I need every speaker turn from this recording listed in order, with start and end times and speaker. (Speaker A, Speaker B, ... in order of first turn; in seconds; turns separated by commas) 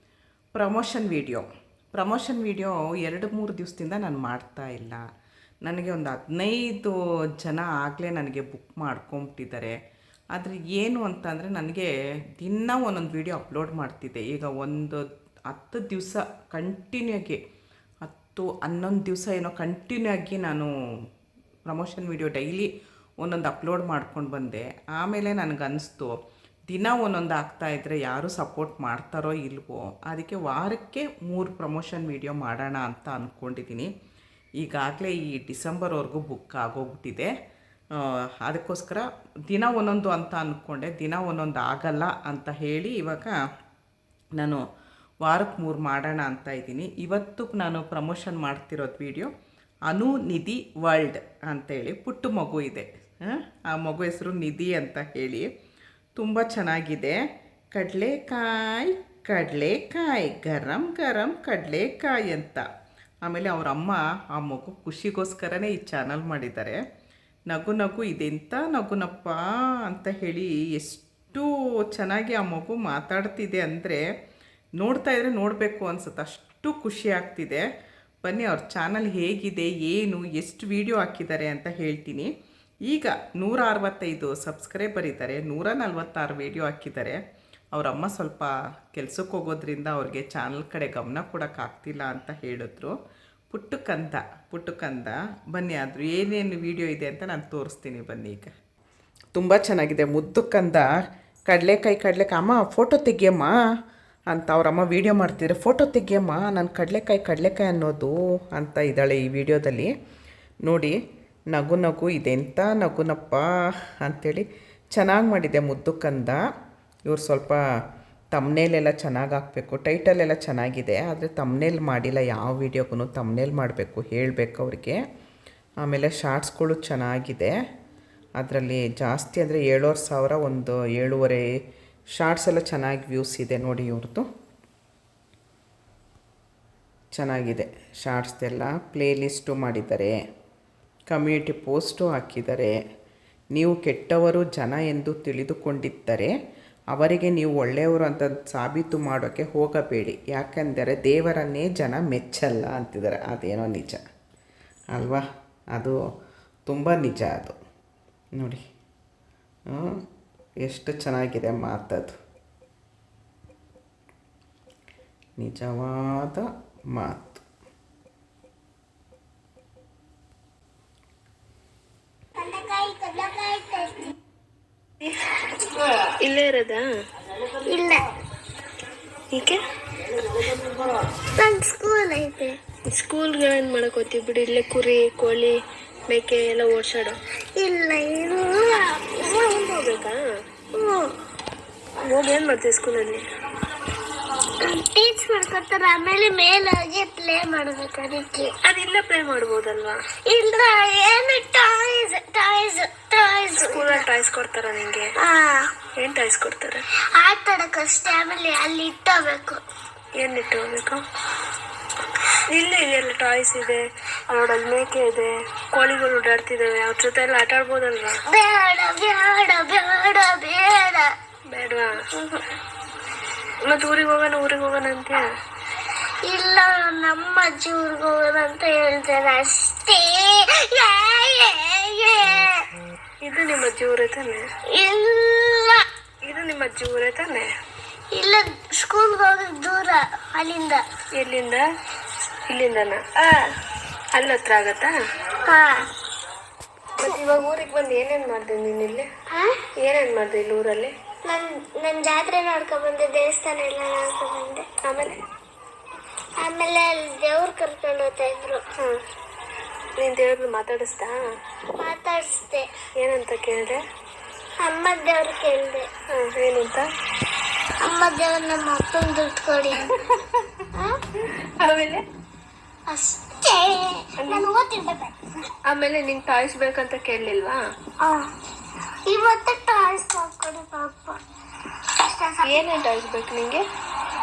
Speaker A: 0.5-5.0, Speaker A: 5.6-9.8, Speaker A: 10.3-17.4, Speaker A: 18.0-20.7, Speaker A: 21.6-22.7, Speaker A: 23.2-26.1, Speaker A: 26.7-33.9, Speaker A: 34.6-37.3, Speaker A: 38.0-43.4, Speaker A: 45.2-49.3, Speaker A: 49.9-55.5, Speaker A: 56.1-57.2, Speaker A: 57.7-62.6, Speaker A: 63.2-66.8, Speaker A: 67.5-74.0, Speaker A: 74.8-77.6, Speaker A: 78.2-82.3, Speaker A: 82.8-87.2, Speaker A: 87.7-92.9, Speaker A: 93.5-98.5, Speaker A: 99.3-100.9, Speaker A: 101.5-103.5, Speaker A: 104.3-109.9, Speaker A: 110.6-111.0, Speaker A: 111.5-116.4, Speaker A: 117.1-117.6, Speaker A: 118.3-125.0, Speaker A: 125.8-127.5, Speaker A: 128.4-131.4, Speaker A: 132.2-134.2, Speaker A: 137.1-140.2, Speaker A: 141.1-142.7, Speaker A: 143.5-146.3, Speaker A: 146.9-154.0, Speaker A: 154.9-156.0, Speaker A: 156.7-157.6, Speaker A: 158.4-158.6, Speaker A: 159.7-160.0, Speaker A: 160.6-162.2, Speaker A: 165.4-167.4, Speaker B: 172.3-174.1, Speaker C: 175.0-175.4, Speaker C: 176.2-176.8, Speaker B: 177.7-178.0, Speaker C: 179.3-179.6, Speaker B: 181.3-182.6, Speaker C: 182.9-185.6, Speaker C: 186.1-187.2, Speaker B: 187.6-189.0, Speaker C: 189.1-190.2, Speaker B: 190.7-191.1, Speaker C: 192.0-193.2, Speaker B: 194.6-198.5, Speaker C: 198.6-200.0, Speaker B: 200.3-204.0, Speaker C: 203.6-205.1, Speaker B: 205.2-205.7, Speaker C: 205.9-206.8, Speaker B: 207.2-209.6, Speaker C: 210.2-211.0, Speaker C: 212.5-218.2, Speaker B: 218.3-221.1, Speaker C: 221.5-222.5, Speaker C: 223.7-225.2, Speaker B: 226.2-232.7, Speaker C: 233.2-234.4, Speaker B: 234.7-235.8, Speaker C: 236.2-237.5, Speaker B: 238.1-240.8, Speaker C: 241.2-241.7, Speaker C: 242.5-243.4, Speaker C: 244.1-244.9, Speaker B: 245.4-245.9, Speaker C: 247.0-249.1, Speaker B: 249.3-249.6, Speaker C: 249.8-250.9, Speaker B: 251.2-254.7, Speaker C: 254.8-255.2, Speaker B: 256.4-258.6, Speaker C: 260.0-261.2, Speaker B: 261.8-262.7, Speaker C: 263.0-263.8, Speaker B: 264.6-265.9, Speaker C: 266.1-266.9, Speaker B: 267.8-269.9, Speaker B: 270.7-271.0, Speaker C: 271.6-272.0, Speaker B: 272.9-275.2, Speaker C: 274.2-274.5, Speaker C: 275.7-277.6, Speaker B: 278.0-278.3, Speaker B: 279.1-281.2, Speaker B: 281.9-282.7, Speaker C: 282.4-283.6